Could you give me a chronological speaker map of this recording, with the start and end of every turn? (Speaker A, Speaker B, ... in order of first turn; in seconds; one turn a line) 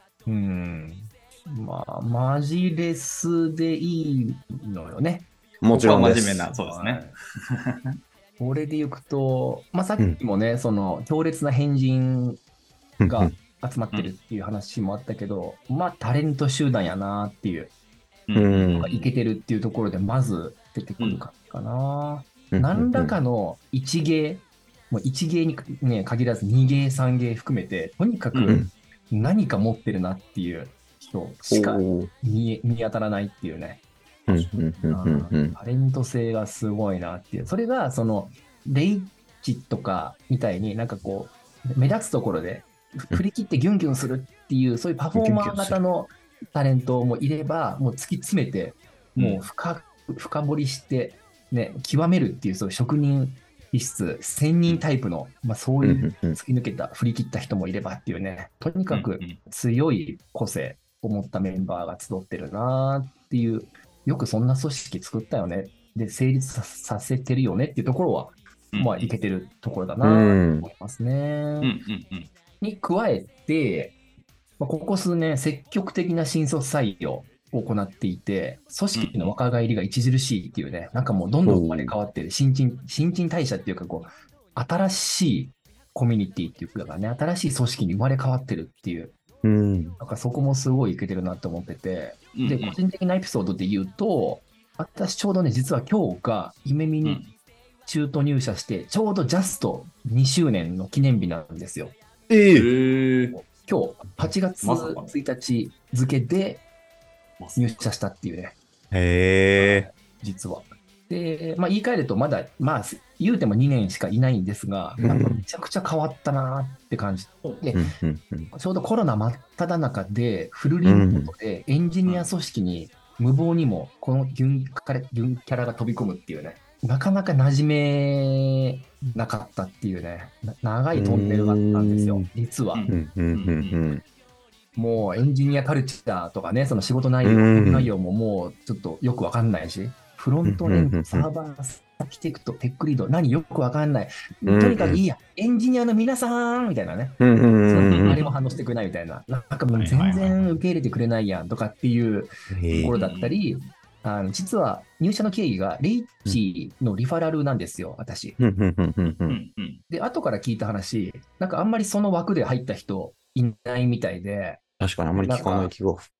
Speaker A: 0.2-5.3
Speaker B: 5.6-6.5
Speaker C: 5.7-7.1
Speaker A: 6.5-7.1
Speaker A: 8.4-12.4
Speaker B: 13.0-13.3
Speaker A: 13.0-17.7
Speaker C: 18.3-19.1
Speaker B: 18.3-18.9
Speaker A: 18.8-28.6
Speaker B: 22.5-23.2
Speaker C: 28.3-28.6
Speaker B: 28.4-28.7
Speaker A: 29.1-71.7
Speaker B: 31.5-32.1
Speaker B: 34.3-35.5
Speaker B: 45.1-45.8
Speaker C: 49.1-49.4
Speaker B: 55.8-56.4
Speaker C: 58.9-59.4
Speaker C: 68.7-69.1
Speaker B: 70.0-70.7
Speaker C: 71.6-72.3
Speaker A: 72.6-74.0
Speaker A: 74.6-89.1
Speaker C: 78.9-79.3
Speaker B: 81.4-81.9
Speaker B: 89.4-90.0
Speaker A: 90.0-97.2
Speaker C: 92.3-92.8
Speaker C: 97.0-97.3
Speaker A: 97.8-101.9
Speaker B: 102.3-102.7
Speaker C: 102.5-103.4
Speaker A: 103.3-106.6
Speaker C: 104.6-105.1
Speaker C: 107.4-107.7
Speaker A: 107.5-108.5
Speaker B: 108.9-109.8
Speaker A: 109.5-117.9
Speaker B: 115.0-115.4
Speaker B: 117.7-118.5
Speaker A: 118.5-132.9
Speaker B: 120.8-121.3
Speaker B: 130.9-132.3
Speaker C: 132.7-133.8
Speaker B: 132.9-134.0
Speaker A: 134.8-152.3
Speaker B: 137.2-137.9
Speaker B: 140.4-141.3
Speaker B: 144.4-145.0
Speaker B: 147.2-148.2
Speaker C: 147.9-148.3
Speaker C: 149.7-150.5
Speaker B: 152.5-152.9
Speaker C: 152.7-153.4
Speaker A: 152.8-158.4
Speaker B: 158.4-159.4
Speaker C: 159.0-159.8
Speaker A: 159.9-164.6
Speaker B: 164.8-166.1
Speaker A: 165.1-165.7